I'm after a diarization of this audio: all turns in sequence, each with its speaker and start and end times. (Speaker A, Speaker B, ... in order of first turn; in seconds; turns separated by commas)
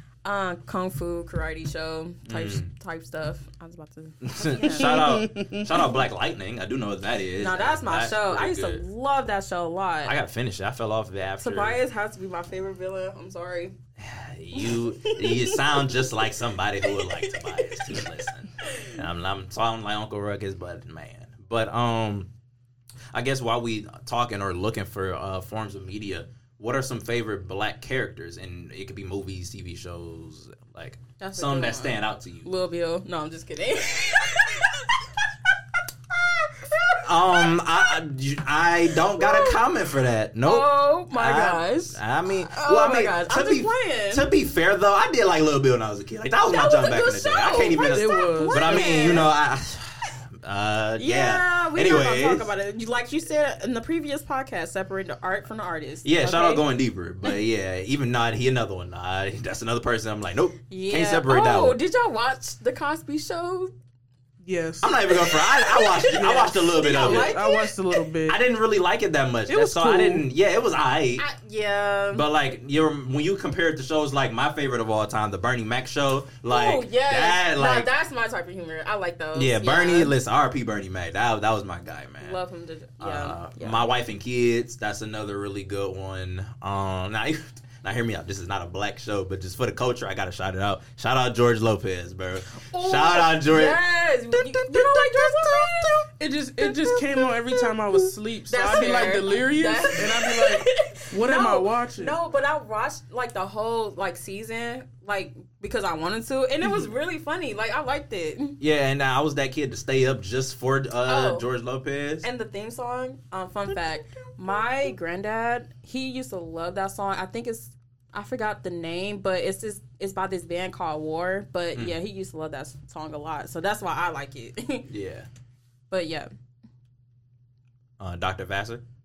Speaker A: 0.2-5.1, Speaker B: 2.3-2.7, Speaker B: 4.2-8.8, Speaker C: 4.7-5.9, Speaker A: 7.4-10.2, Speaker B: 10.1-11.8, Speaker A: 11.4-13.8, Speaker B: 14.0-22.3, Speaker A: 14.5-16.0, Speaker A: 16.8-19.0, Speaker B: 23.1-32.5, Speaker A: 31.2-35.2, Speaker A: 36.1-37.7, Speaker B: 37.0-52.5, Speaker A: 38.9-39.6, Speaker A: 40.4-44.3, Speaker A: 46.5-49.3, Speaker C: 47.9-49.0, Speaker A: 51.0-56.6, Speaker B: 56.0-61.8, Speaker A: 60.7-63.7, Speaker C: 64.4-65.0, Speaker B: 64.8-67.4, Speaker A: 65.1-67.7, Speaker C: 66.1-68.4, Speaker B: 68.3-71.2, Speaker C: 69.5-70.3, Speaker A: 71.2-72.2, Speaker B: 72.1-77.9, Speaker A: 76.5-80.1, Speaker B: 79.3-82.4, Speaker A: 82.2-83.9, Speaker B: 83.0-93.8, Speaker A: 92.6-96.1, Speaker C: 94.7-102.2, Speaker A: 96.6-108.6, Speaker B: 108.6-112.2, Speaker A: 111.1-111.5, Speaker A: 112.2-124.9, Speaker B: 113.7-114.9, Speaker B: 124.9-125.3, Speaker A: 125.9-126.3, Speaker B: 128.0-128.8